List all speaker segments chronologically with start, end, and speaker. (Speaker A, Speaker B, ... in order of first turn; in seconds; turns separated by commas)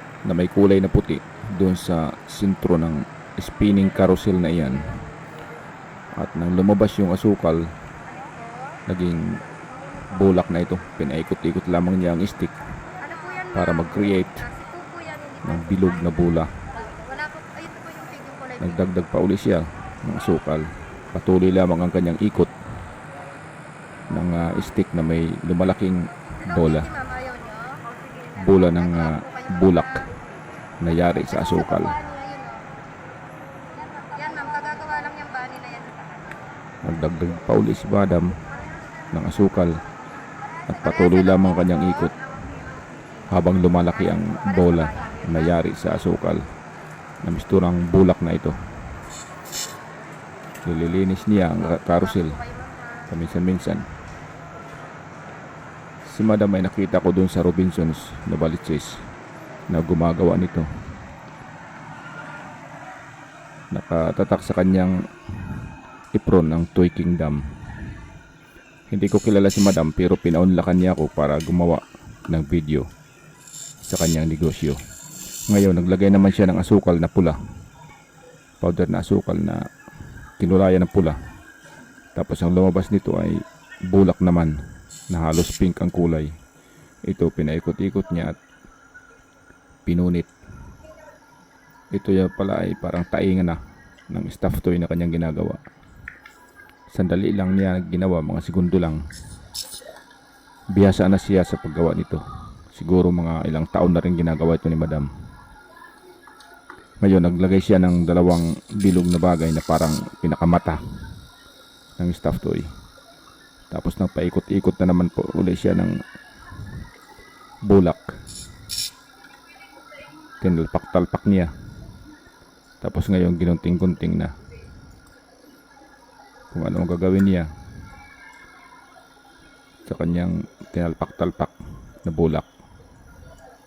Speaker A: 0.2-5.0, Speaker A: 6.1-7.7, Speaker A: 8.8-9.4, Speaker A: 10.1-12.6, Speaker B: 13.0-13.5, Speaker A: 13.5-14.6, Speaker B: 14.6-15.4, Speaker A: 15.4-16.5, Speaker B: 17.0-18.5, Speaker A: 18.6-22.5, Speaker A: 24.1-26.9, Speaker B: 27.0-27.8, Speaker A: 28.3-30.1, Speaker A: 30.8-32.0, Speaker B: 32.0-32.6, Speaker B: 34.0-36.1, Speaker A: 36.8-38.4, Speaker A: 39.1-39.8, Speaker A: 40.7-42.1, Speaker A: 43.3-46.5, Speaker A: 47.2-48.6, Speaker A: 50.6-52.5, Speaker A: 53.0-53.9, Speaker A: 56.1-59.0, Speaker A: 59.7-60.7, Speaker A: 63.7-65.6, Speaker A: 66.1-67.4, Speaker A: 68.9-72.8, Speaker A: 73.8-74.8, Speaker A: 75.5-77.4, Speaker A: 78.6-79.6, Speaker A: 80.4-81.2, Speaker A: 82.1-84.6, Speaker A: 85.1-86.3, Speaker A: 87.0-88.4, Speaker A: 89.8-90.3, Speaker A: 91.9-93.6, Speaker A: 94.1-95.6, Speaker A: 96.9-99.0, Speaker A: 100.7-105.1, Speaker A: 107.0-110.8, Speaker A: 112.0-112.7, Speaker A: 113.7-116.0, Speaker A: 117.6-118.1, Speaker A: 120.4-121.5, Speaker A: 122.8-124.3, Speaker A: 126.5-127.5, Speaker A: 129.8-132.5